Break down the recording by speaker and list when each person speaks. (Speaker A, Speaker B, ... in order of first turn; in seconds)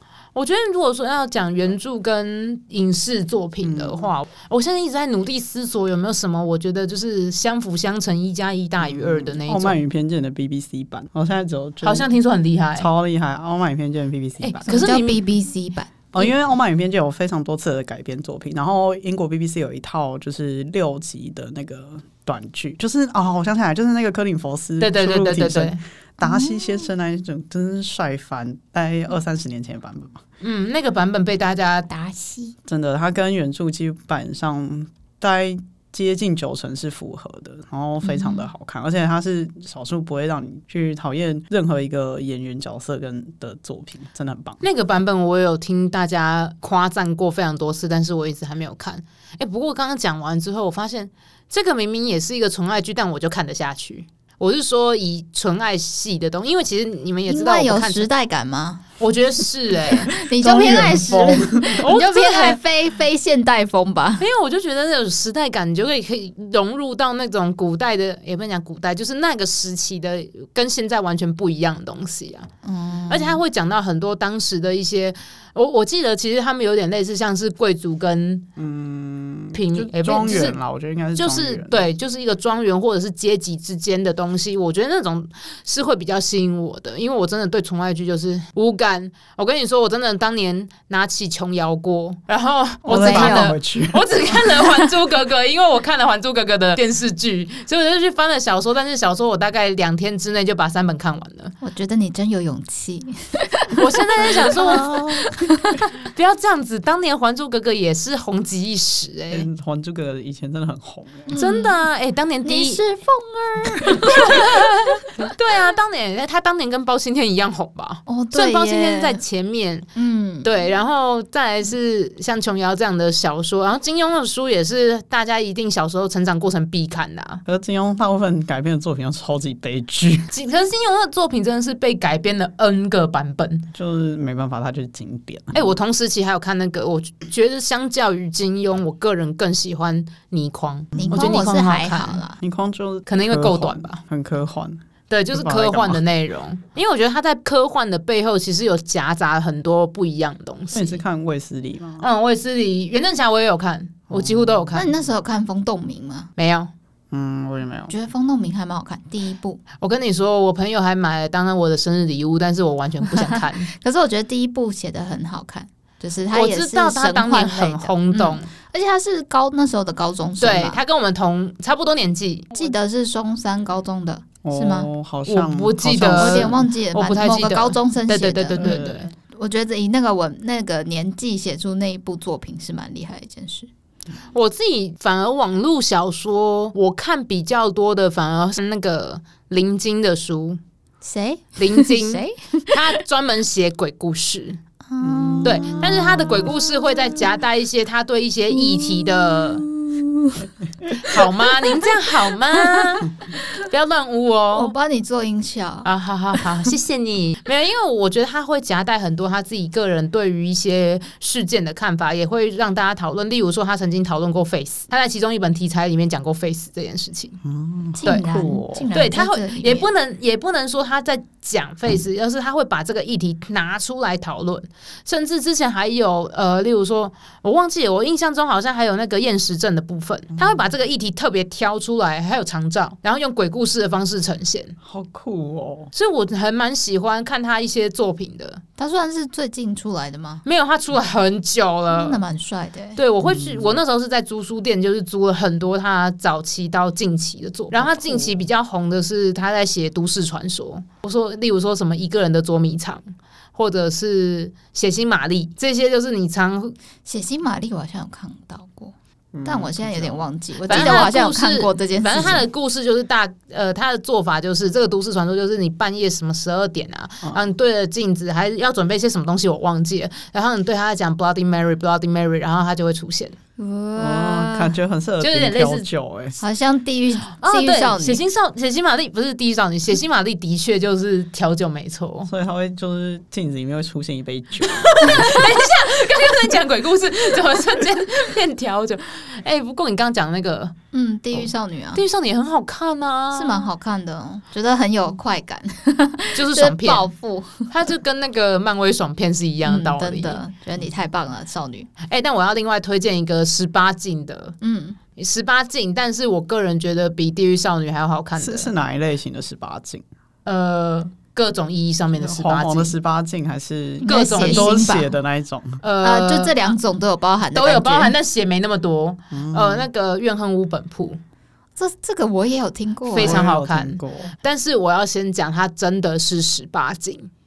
Speaker A: 0.3-9.8, 11.8-12.9, 14.4-15.2, 24.8-25.8, 30.4-31.9, 44.6-58.1, 59.0-61.0, 61.7-62.6, 64.2-72.5, 73.1-78.5, 79.5-80.6, 81.2-101.5, 103.8-104.9, 106.1-109.5, 111.3-112.8, 113.9-119.9, 120.4-127.4, 130.3-133.7, 135.5-142.2, 143.1-144.0, 145.1-151.0, 152.0-154.9, 156.4-156.7, 159.8-163.7, 166.3-168.5, 170.4-172.6, 175.3-179.1, 184.3-190.6, 191.6-194.6, 195.4-199.7, 201.0-204.7, 205.8-217.4, 218.9-234.8, 235.9-238.6, 240.4-242.2, 243.0-253.0, 253.6-256.8, 260.7-273.4, 275.2-275.9, 277.4-282.3, 284.7-290.8, 291.9-293.7, 296.4-297.1, 297.7-300.4, 302.1-304.6, 305.2-308.7, 310.4-312.9, 314.1-314.8, 315.8-316.7, 317.5-321.2, 323.1-327.3
Speaker B: 3.6-4.1, 8.8-12.1, 12.8-14.8, 16.1-30.2, 32.7-44.6, 60.4-61.8, 78.6-81.9, 92.9-94.6, 104.5-105.3, 109.3-111.3, 127.5-130.3, 133.7-135.7, 140.9-141.2, 142.4-144.8, 145.3-146.0, 150.7-152.1, 154.1-154.8, 157.1-157.9, 174.4-176.7, 178.6-179.1, 195.0-196.6, 199.7-201.3, 217.4-218.9, 234.8-235.9, 243.2-243.8, 247.8-248.3, 259.3-261.1, 274.0-276.4, 282.3-285.5, 308.4-310.0, 312.2-315.8, 319.3-319.9, 323.2-324.3
Speaker C: 14.7-16.3, 26.2-26.9, 31.9-32.5, 38.0-38.5, 57.3-58.9, 59.9-64.3, 72.6-73.4, 92.9-93.5, 101.6-105.8, 111.3-111.8, 112.4-114.7, 118.1-119.2, 120.0-120.7, 141.0-142.4, 154.8-156.3, 157.9-159.6, 163.3-170.8, 172.5-174.9, 176.0-183.7, 191.0-192.9, 194.9-196.1, 204.5-205.9, 218.0-219.9, 238.8-240.4, 241.9-243.0, 257.1-258.9, 259.4-262.4, 273.6-274.7, 276.4-278.2, 290.9-292.0, 293.3-297.7, 299.6-301.9, 304.6-305.0, 314.0-315.1, 316.0-318.1, 321.8-323.4